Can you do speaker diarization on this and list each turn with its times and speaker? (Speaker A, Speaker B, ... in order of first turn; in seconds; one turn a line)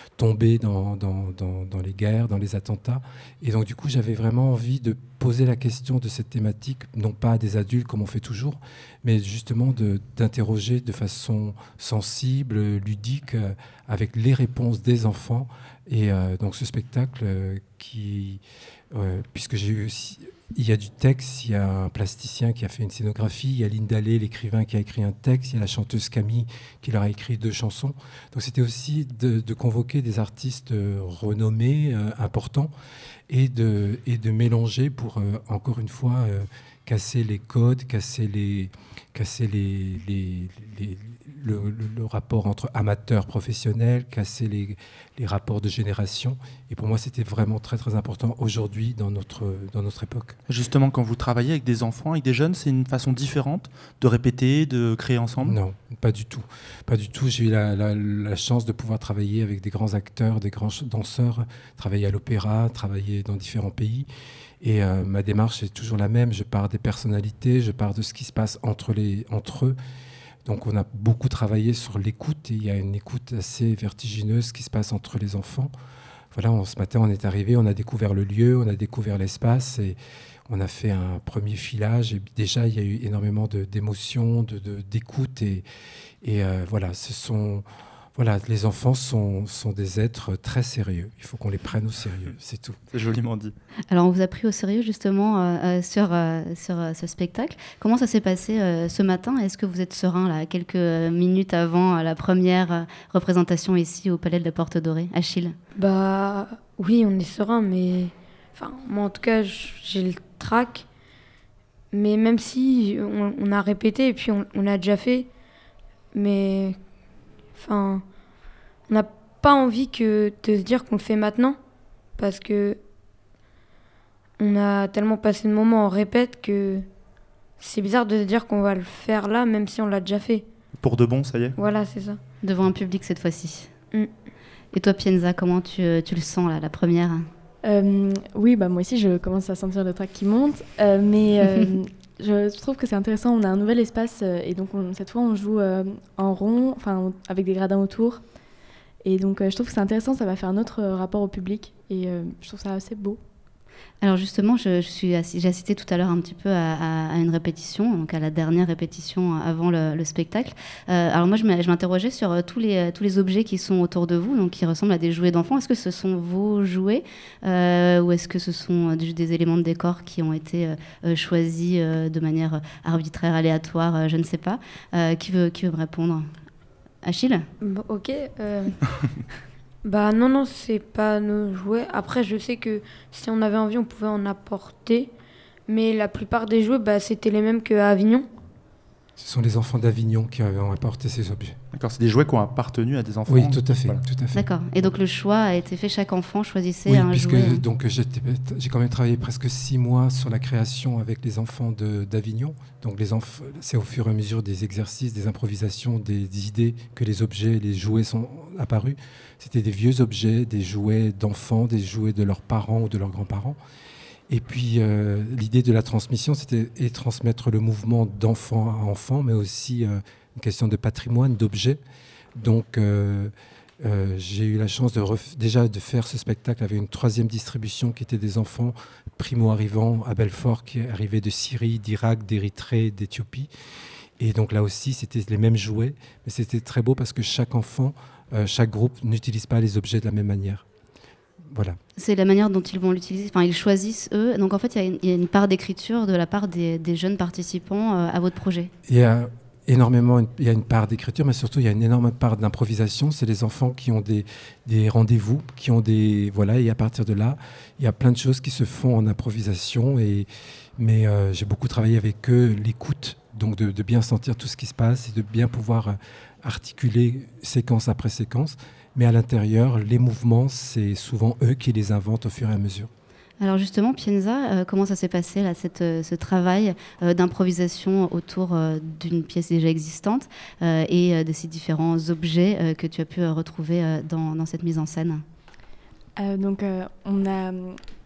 Speaker A: 0.2-32.7
Speaker A: 33.3-50.4
Speaker B: 50.5-55.6
Speaker A: 55.4-64.1
Speaker A: 64.6-69.8
Speaker A: 70.4-75.7
Speaker A: 76.3-85.7
Speaker A: 86.2-92.8
Speaker B: 92.9-93.5
Speaker C: 93.9-105.5
Speaker D: 105.8-110.8
Speaker D: 111.9-115.3
Speaker D: 116.1-116.8
Speaker D: 117.5-118.0
Speaker D: 118.9-121.6
Speaker D: 122.2-122.8
Speaker D: 124.4-126.8
Speaker D: 127.6-130.5
Speaker B: 130.8-131.6
Speaker D: 131.6-132.2
Speaker C: 132.4-133.7
Speaker C: 134.7-137.2
Speaker E: 137.6-148.2
Speaker E: 149.0-153.2
Speaker C: 154.0-176.2
Speaker C: 177.0-177.4
Speaker D: 177.6-178.8
Speaker D: 179.8-185.1
Speaker D: 185.7-188.2
Speaker A: 189.2-191.6
Speaker B: 191.7-194.0
Speaker A: 193.3-194.4
Speaker C: 194.3-197.6
Speaker A: 196.8-213.6
Speaker A: 214.3-221.8
Speaker A: 222.3-233.5
Speaker A: 234.2-240.7
Speaker A: 241.4-241.8
Speaker C: 242.0-248.7
Speaker A: 248.8-272.9
Speaker C: 273.4-285.2
Speaker E: 286.2-287.8